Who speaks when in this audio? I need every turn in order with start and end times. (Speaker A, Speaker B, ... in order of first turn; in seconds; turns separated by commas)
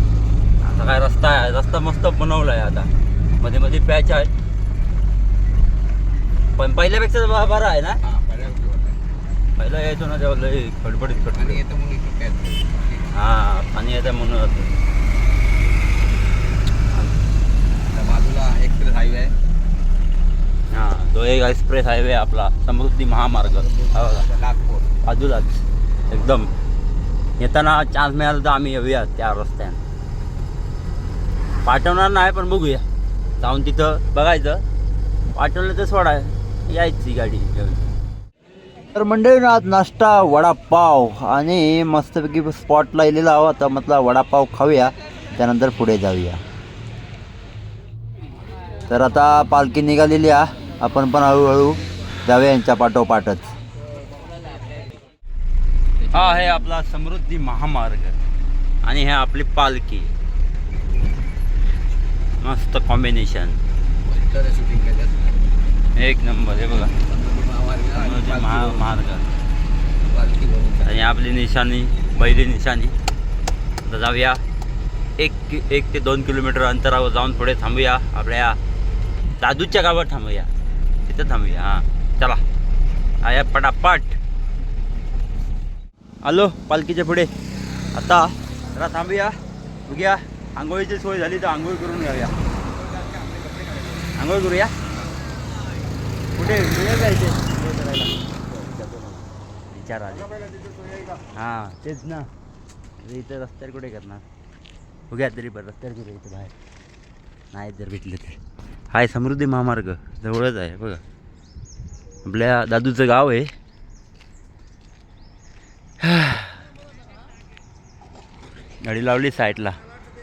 Speaker A: 0.6-4.3, Speaker A: 6.5-8.0, Speaker B: 8.0-9.0, Speaker A: 9.6-11.6, Speaker B: 11.3-13.1, Speaker A: 13.1-14.7, Speaker B: 17.9-19.3, Speaker A: 20.7-24.3, Speaker B: 23.5-24.9, Speaker A: 25.0-26.5, Speaker A: 27.4-29.8, Speaker A: 31.6-32.8, Speaker A: 33.4-34.6, Speaker A: 35.3-37.8, Speaker A: 38.9-46.4, Speaker A: 48.9-53.5, Speaker A: 56.1-58.2, Speaker B: 56.1-56.5, Speaker A: 58.8-60.1, Speaker A: 62.4-63.6, Speaker B: 64.0-65.4, Speaker A: 65.9-66.9, Speaker B: 67.1-68.8, Speaker A: 68.0-69.3, Speaker B: 70.1-71.0, Speaker A: 70.8-73.0, Speaker A: 73.8-74.4, Speaker A: 75.2-78.6, Speaker A: 79.4-80.5, Speaker A: 81.0-82.4, Speaker A: 83.2-84.2, Speaker A: 86.2-87.3, Speaker A: 87.9-92.4, Speaker A: 94.1-94.7, Speaker A: 96.3-100.3, Speaker A: 101.3-102.3, Speaker A: 103.0-104.2, Speaker A: 105.1-106.5, Speaker A: 107.5-108.4, Speaker A: 108.9-111.0, Speaker A: 112.2-113.5, Speaker A: 116.0-116.6, Speaker A: 118.8-119.8